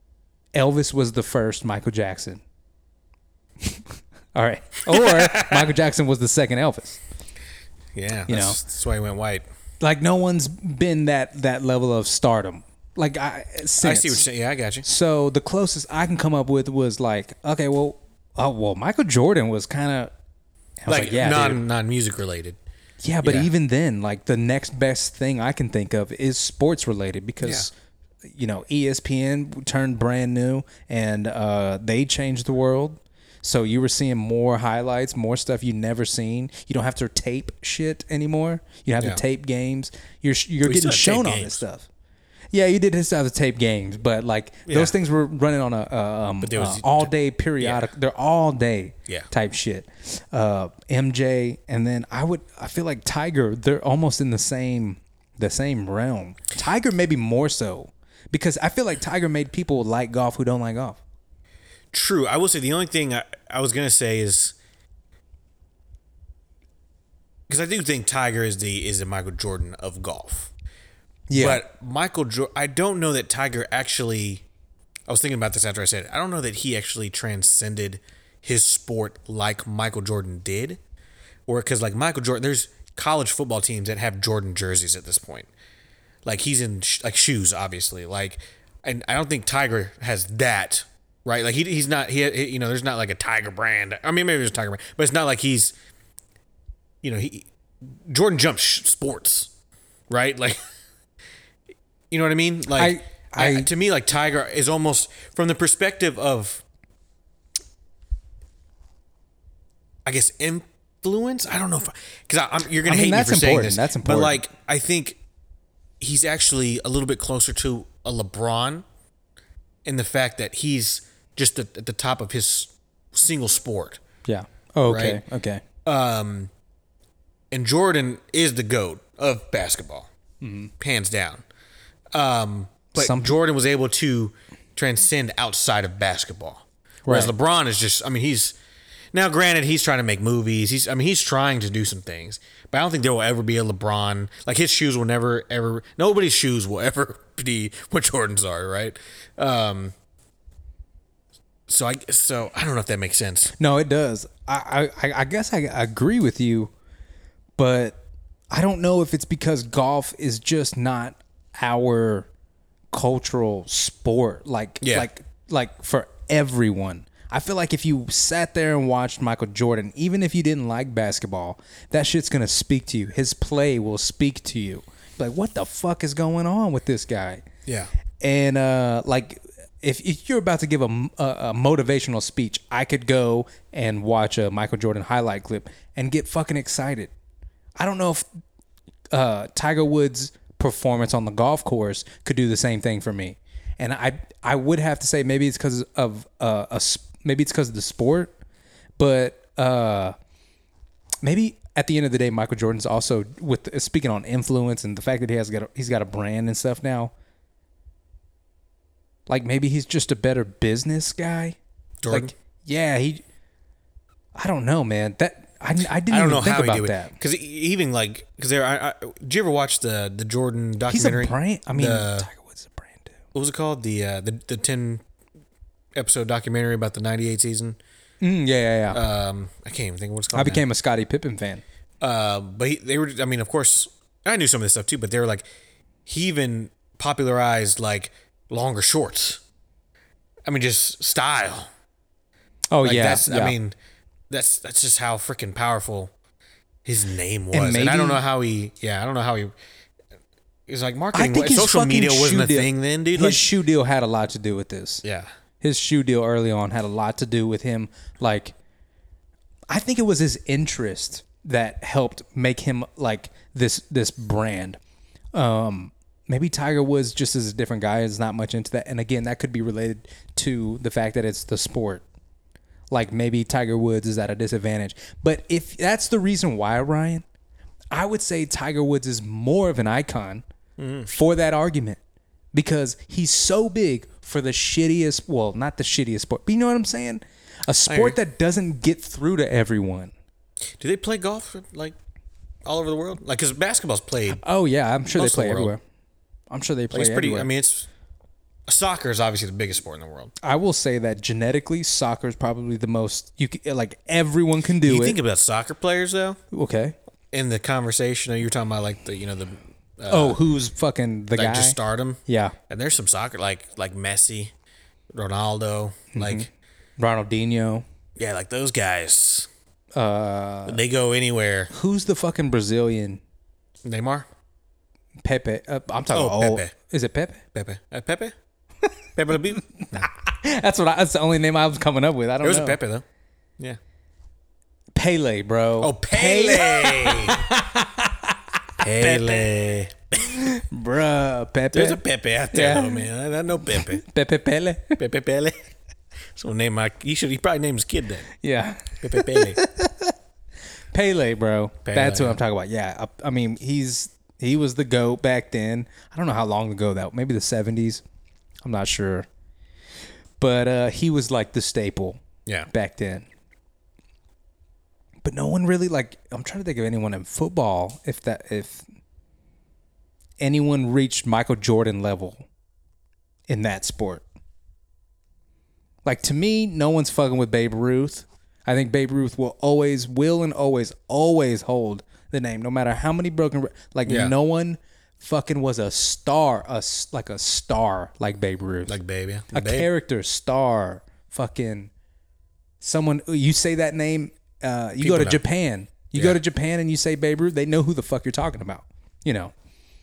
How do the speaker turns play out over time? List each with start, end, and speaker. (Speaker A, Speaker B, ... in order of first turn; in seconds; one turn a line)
Speaker A: 0.5-2.4
Speaker A: 3.6-7.0
Speaker B: 4.9-5.7
Speaker B: 7.9-9.4
Speaker A: 8.3-8.6
Speaker A: 9.8-14.2
Speaker B: 13.8-14.8
Speaker A: 14.8-20.1
Speaker A: 20.8-21.6
Speaker B: 20.9-22.6
Speaker A: 23.0-27.7
Speaker B: 23.2-23.5
Speaker B: 27.4-27.7
Speaker A: 28.2-41.9
Speaker B: 40.6-41.6
Speaker A: 42.5-61.0
Speaker B: 44.7-44.9
Speaker B: 46.4-47.9
Speaker B: 61.9-64.5
Speaker B: 67.5-70.5
Speaker A: 71.3-71.6
Speaker B: 71.3-74.4
Speaker B: 75.1-80.8
Speaker B: 81.5-85.5
Speaker B: 86.2-95.7
Speaker B: 97.0-99.5
Speaker B: 100.1-100.6
Speaker B: 102.1-106.6
Speaker A: 102.7-103.7
Speaker B: 110.0-115.2
Speaker A: 112.8-114.4
Speaker B: 116.0-118.8
Speaker B: 119.8-124.0
Speaker A: 124.2-125.6
Speaker B: 124.9-125.2
Speaker B: 125.8-126.5
Speaker B: 127.5-130.1
Speaker A: 130.4-130.7
Speaker B: 130.8-131.4
Speaker B: 132.1-138.5
Speaker A: 132.9-133.3
Speaker A: 137.1-137.3
Speaker B: 139.1-149.9
Speaker B: 151.7-153.5
Speaker A: 153.6-156.7
Speaker A: 157.6-158.0
Speaker A: 158.5-162.3
Speaker A: 162.9-177.4
Speaker B: 164.8-165.1
Speaker B: 177.7-177.9
Speaker A: 178.2-187.1
Speaker A: 187.8-188.2
Speaker A: 189.1-198.3
Speaker A: 199.0-200.1
Speaker A: 201.2-207.1
Speaker A: 209.3-211.6
Speaker B: 212.0-212.3
Speaker A: 212.1-213.2
Speaker A: 214.3-217.1
Speaker B: 216.1-222.3
Speaker A: 220.9-223.1
Speaker B: 223.3-225.0
Speaker B: 225.9-227.8
Speaker A: 228.2-229.0
Speaker B: 228.9-230.6
Speaker A: 230.3-231.6
Speaker B: 232.0-235.4
Speaker B: 236.1-239.4
Speaker B: 240.4-241.7
Speaker A: 242.7-243.6
Speaker B: 242.8-243.7
Speaker B: 244.3-246.1
Speaker B: 246.8-249.5
Speaker A: 247.5-248.2
Speaker B: 250.7-253.5
Speaker A: 251.1-255.0
Speaker B: 255.0-255.3
Speaker A: 255.6-258.5
Speaker A: 259.7-264.8
Speaker A: 265.3-272.0
Speaker A: 272.9-277.2
Speaker A: 277.9-280.4
Speaker B: 280.8-281.1
Speaker A: 281.1-282.0
Speaker A: 282.5-290.1
Speaker B: 287.9-288.2
Speaker B: 290.8-291.9
Speaker B: 292.6-294.4
Speaker A: 294.3-295.8
Speaker B: 295.1-295.7
Speaker A: 296.5-297.5
Speaker B: 296.9-297.9
Speaker B: 298.7-300.3
Speaker A: 300.4-305.2
Speaker B: 304.8-306.4
Speaker A: 306.5-306.9
Speaker B: 307.3-310.4
Speaker A: 310.1-312.5
Speaker B: 311.4-314.5
Speaker B: 315.1-316.5
Speaker A: 316.1-317.8
Speaker B: 318.2-319.5
Speaker A: 319.9-320.8
Speaker B: 320.6-321.7
Speaker A: 321.7-323.2
Speaker B: 323.8-324.3
Speaker A: 325.2-327.4
Speaker B: 326.1-326.7
Speaker B: 327.5-328.3
Speaker B: 329.1-330.1
Speaker A: 329.6-332.8
Speaker B: 332.4-333.0
Speaker A: 334.9-339.4
Speaker B: 335.8-337.5
Speaker B: 338.8-340.5
Speaker A: 340.4-343.1
Speaker B: 341.7-344.0
Speaker A: 343.7-345.0
Speaker B: 345.0-345.7
Speaker B: 346.3-348.3
Speaker A: 348.4-350.1
Speaker B: 349.0-349.6
Speaker A: 350.9-358.0
Speaker B: 351.8-352.4
Speaker A: 358.6-359.3
Speaker A: 360.4-363.3
Speaker A: 365.2-368.8
Speaker A: 370.4-372.4
Speaker A: 373.5-374.2
Speaker A: 376.0-389.0
Speaker B: 384.1-384.3
Speaker B: 388.9-389.9
Speaker A: 389.5-391.9
Speaker A: 392.8-399.5
Speaker B: 395.0-395.4
Speaker B: 396.1-396.4